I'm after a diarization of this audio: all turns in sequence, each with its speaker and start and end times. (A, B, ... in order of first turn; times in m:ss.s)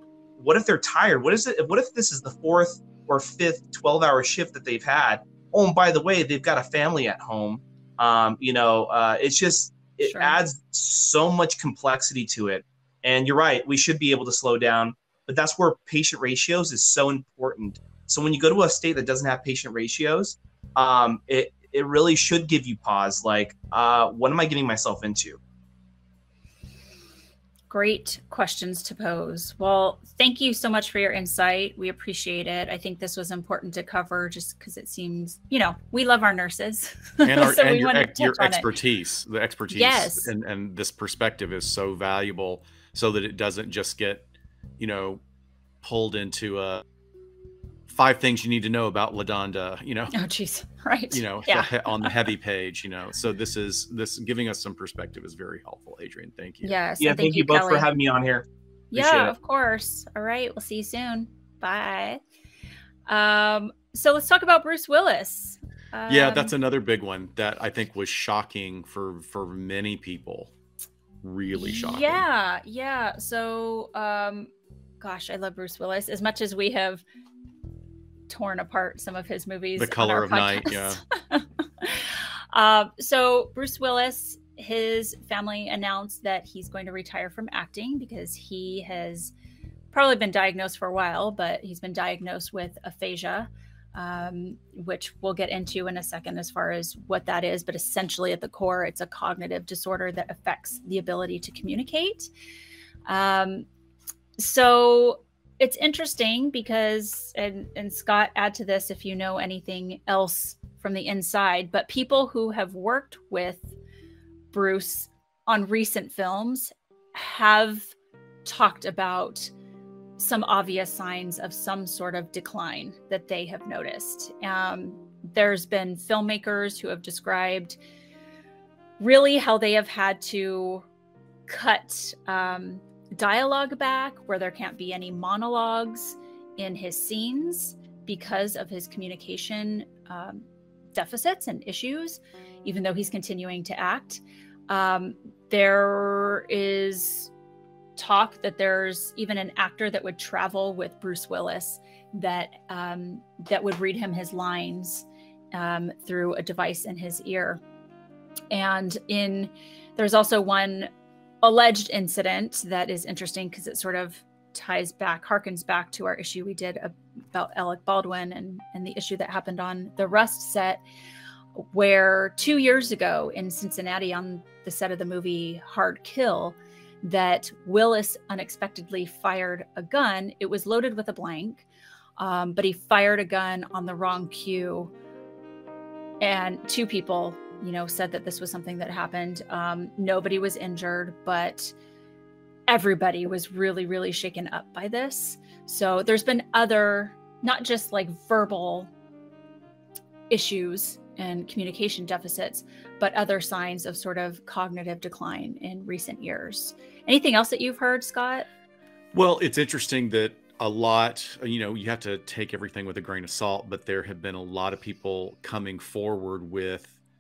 0:00.4-0:25.4 A
0:10.0-0:10.4 B
0:27.7-0:38.7 B
0:37.2-0:44.3 C
0:39.7-0:40.3 B
0:44.8-0:45.2 C
0:45.8-0:46.8 C
0:47.9-0:50.1 C
0:50.1-0:52.2 B
0:51.1-0:56.8 C
0:56.6-0:57.9 B
0:57.0-0:59.4 A
0:58.9-1:02.2 B
1:03.1-1:06.5 B
1:06.1-1:10.5 C
1:11.2-1:12.2 C
1:11.5-1:17.0 B
1:18.3-1:29.3 B
1:19.8-1:21.0 C
1:29.9-1:42.3 B
1:43.1-1:43.7 B
1:44.4-1:53.7 B
1:54.5-1:57.9 B
1:58.4-1:59.5 B
2:00.2-2:07.8 B
2:09.0-2:10.9 B
2:11.5-2:27.3 B
2:28.0-2:37.6 B
2:38.5-2:40.9 B
2:41.4-2:50.8 B
2:51.6-3:01.7 B
3:02.2-3:04.9 B
3:06.2-3:11.7 B
3:12.7-3:18.9 B
3:20.3-3:28.5 B
3:29.1-3:36.9 C